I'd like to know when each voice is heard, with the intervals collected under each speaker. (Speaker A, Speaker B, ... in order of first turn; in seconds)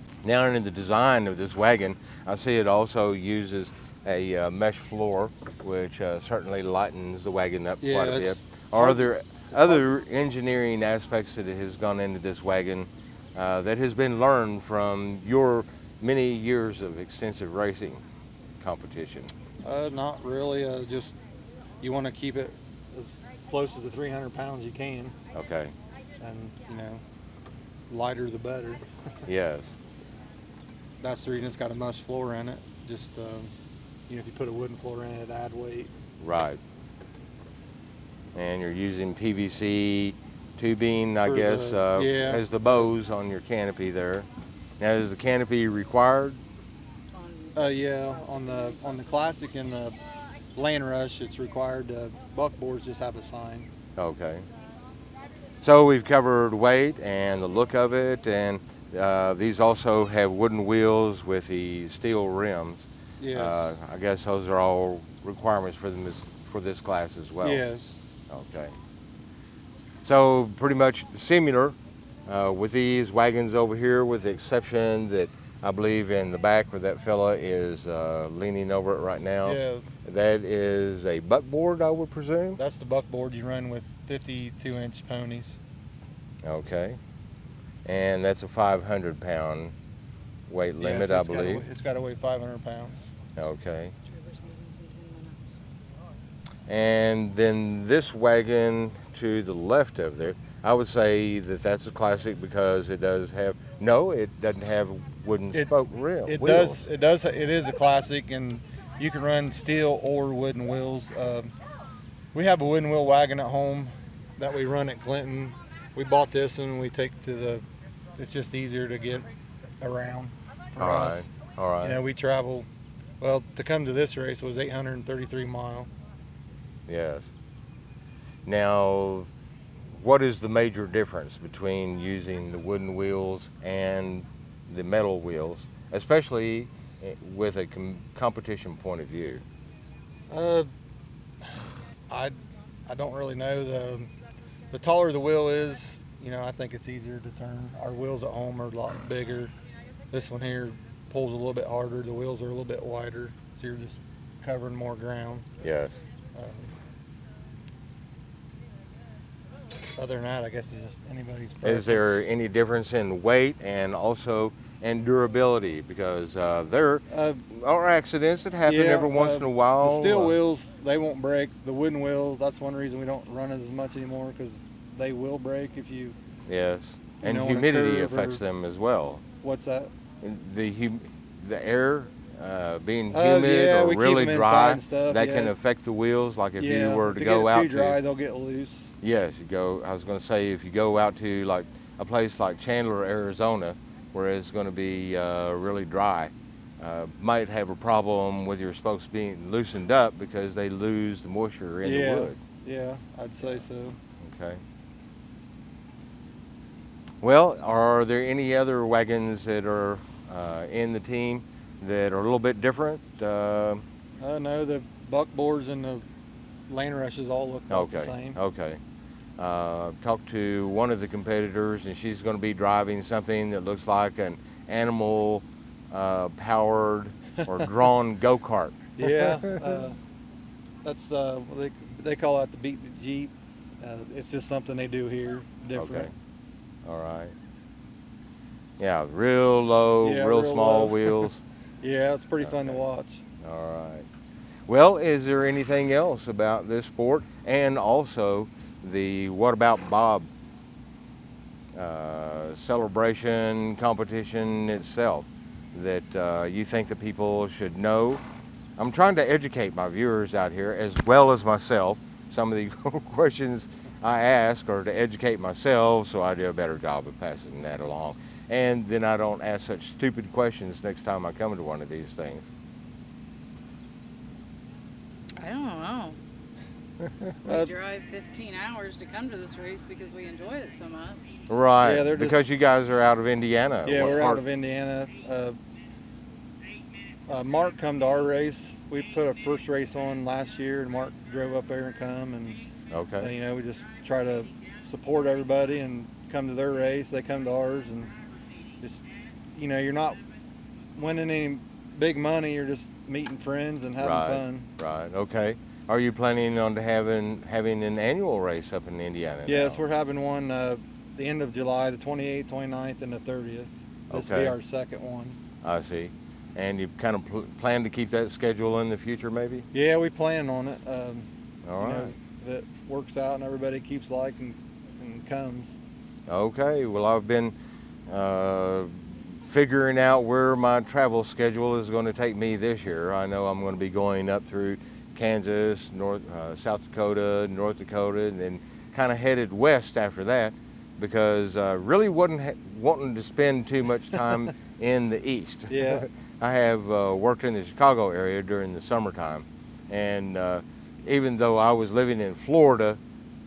Speaker A: 0.2-18.0, 18.6-19.3, 25.3-25.7, 29.3-29.7, 36.2-36.6, 38.3-44.3, 44.8-46.4, 54.0-54.5, 55.6-67.6, 68.3-68.7, 70.0-71.8, 72.3-82.6, 86.4-87.0, 87.8-89.7, 90.5-91.7, 93.4-93.9, 96.7-106.8, 120.8-122.0, 126.9-127.3, 128.4-129.3, 129.9-139.4, 155.6-155.9, 161.6-170.3, 176.4-179.2, 180.2-188.0, 189.0-202.4, 204.2-204.6, 207.2-213.8, 217.7-218.8, 219.4-229.5, 235.8-236.1, 236.8-237.3, 238.8-241.4, 242.4-242.8, 243.4-244.1, 244.7-250.3, 251.7-258.2, 258.8-272.4, 281.5-284.4, 292.9-293.3, 304.0-309.8, 314.1-314.6, 315.6-319.6, 321.6-322.1, 326.3-327.5, 328.1-353.0
Speaker B: 7.8-9.8, 19.6-21.2, 21.8-25.1, 26.2-27.0, 27.9-28.9, 31.0-33.5, 34.1-35.9, 41.2-42.9, 47.5-50.0, 50.5-53.7, 63.2-63.7, 67.4-68.0, 79.4-79.9, 82.6-85.6, 90.8-93.1, 106.2-111.5, 112.3-119.3, 119.8-121.3, 121.8-122.7, 123.2-125.9, 140.3-140.7, 141.4-144.1, 144.7-149.5, 150.1-155.5, 156.3-156.7, 159.9-162.2, 167.1-167.4, 168.6-176.2, 177.2-178.4, 179.4-179.9, 183.1-185.5, 186.6-188.9, 201.8-204.0, 214.2-216.1, 216.7-218.4, 229.0-230.0, 230.8-236.1, 240.0-241.3, 241.8-243.2, 277.4-277.7, 281.8-282.4, 283.8-285.6, 287.3-292.6, 293.2-298.1, 298.8-300.2, 300.9-304.7, 309.4-315.4, 319.7-321.3, 321.8-325.8, 345.7-346.1
Speaker C: 47.1-47.6, 94.1-95.5, 275.4-276.2, 277.4-281.2